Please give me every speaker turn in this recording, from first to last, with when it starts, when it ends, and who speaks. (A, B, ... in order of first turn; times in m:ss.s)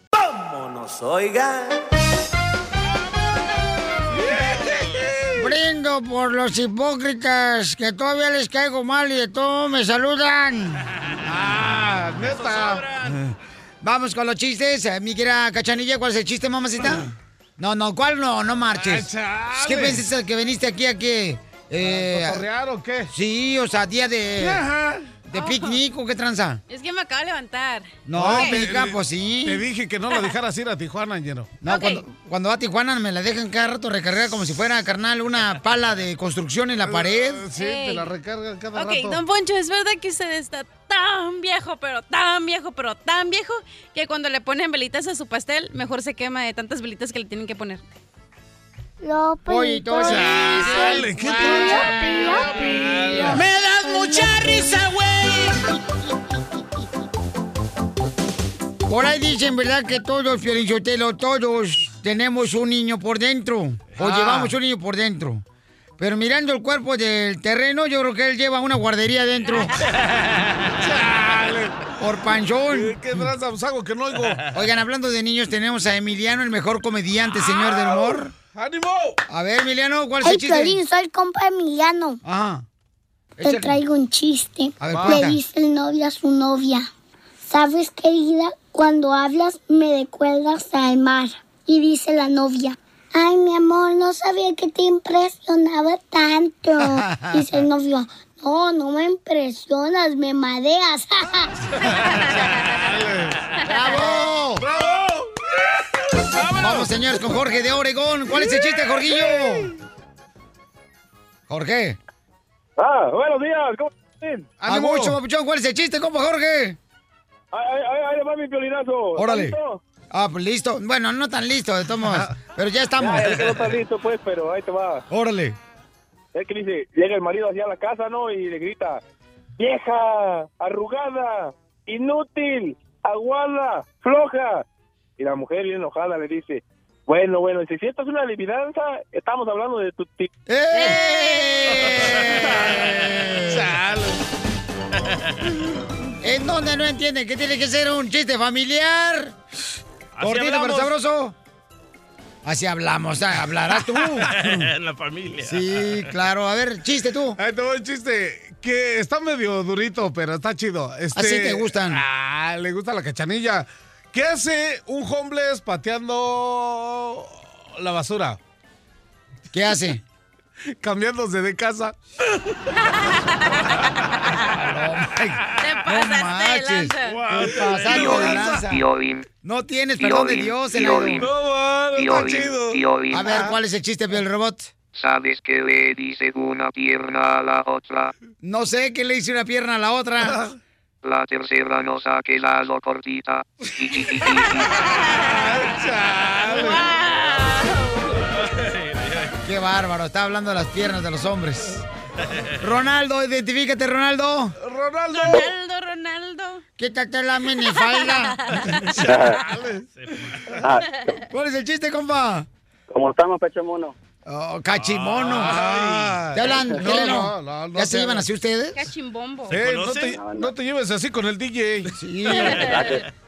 0:02.9-0:05.1 A
0:04.1-0:05.5 B
0:05.4-0:10.8 C
0:11.2-0:12.8 B
0:12.2-0:13.2 A
0:13.8-0:17.0 C
0:17.6-0:22.4 C
0:18.7-0:20.0 B
0:21.8-0:23.1 B
0:23.1-0:24.6 C
0:24.4-0:25.2 B
0:25.3-0:26.6 C
0:25.3-0:25.8 D
0:26.7-0:28.6 D
0:28.0-0:29.6 C
0:28.1-0:31.6 B
0:31.6-0:37.4 C
0:31.6-0:32.0 D
0:36.8-0:39.2 B
0:37.5-0:38.1 D
0:38.7-0:47.8 D
0:49.0-0:54.7 E
0:49.5-0:53.4 C
0:50.0-0:55.5 B
0:55.8-0:57.1 E
0:58.8-1:05.4 C
1:04.0-1:04.5 B
1:06.0-1:09.8 C
1:10.0-1:10.8 A
1:10.8-1:11.9 B
1:12.0-1:13.0 C
1:12.7-1:14.5 B
1:14.5-1:18.3 C
1:17.4-1:19.2 B
1:19.3-1:20.8 C
1:20.2-1:22.2 E
1:22.2-1:22.6 C
1:23.4-1:23.8 C
1:23.4-1:26.9 E
1:24.8-1:25.4 C
1:24.9-1:25.2 B
1:27.4-1:41.5 E
1:36.8-1:37.5 C
1:41.8-1:43.4 B
1:43.6-1:44.7 C
1:44.6-1:45.9 B
1:46.3-1:46.9 A
1:46.5-1:49.7 C
1:48.3-1:49.7 B
1:51.5-1:52.0 C
1:52.8-1:54.5 F
1:54.6-1:55.2 B
1:54.6-1:56.8 C
1:57.5-1:59.8 F
1:59.2-1:59.6 C
2:00.1-2:03.5 C
2:02.1-2:02.3 B
2:03.0-2:05.0 F
2:05.1-2:05.6 C
2:06.3-2:09.0 F
2:09.6-2:14.6 F
2:15.2-2:20.3 F
2:20.5-2:23.8 C
2:20.8-2:21.5 D
2:23.4-2:24.2 B
2:24.9-2:25.5 A
2:26.2-2:29.3 C
2:30.1-2:30.9 A
2:30.2-2:31.3 C
2:32.4-2:34.4 C
2:34.2-2:36.1 A
2:35.4-2:37.4 C
2:37.4-2:48.4 B
2:41.1-2:42.0 C
2:49.5-2:50.0 C
2:50.8-2:52.0 B
2:52.7-2:54.6 D
2:54.4-2:58.8 C
2:55.6-2:57.2 D
2:57.0-2:58.2 A
2:57.3-2:58.6 B
2:57.9-2:59.3 G
2:59.4-3:01.3 C
3:00.0-3:01.3 G
3:01.0-3:03.5 B
3:01.9-3:03.4 G
3:03.1-3:04.7 C
3:04.9-3:08.1 G
3:08.4-3:10.4 C
3:11.0-3:14.7 G
3:14.7-3:15.6 D
3:15.2-3:16.8 B
3:16.4-3:18.2 D
3:18.1-3:19.4 A
3:19.4-3:21.8 C
3:22.2-3:22.5 A
3:22.6-3:24.5 C
3:24.6-3:25.5 B
3:25.1-3:26.6 D
3:26.8-3:28.5 C
3:27.5-3:28.9 D
3:29.0-3:30.4 B
3:29.0-3:29.4 H
3:29.1-3:30.6 A
3:30.6-3:30.9 H
3:30.8-3:31.2 D
3:31.3-3:32.5 C
3:32.9-3:33.9 H
3:34.2-3:35.6 C
3:34.8-3:36.2 A
3:35.2-3:38.3 B
3:36.3-3:38.8 C
3:36.7-3:37.0 H
3:38.7-3:39.6 D
3:39.5-3:40.2 A
3:39.5-3:42.0 B
3:40.1-3:40.5 H
3:41.9-3:42.8 C
3:42.2-3:43.0 D
3:42.3-3:43.0 A
3:42.5-3:43.0 H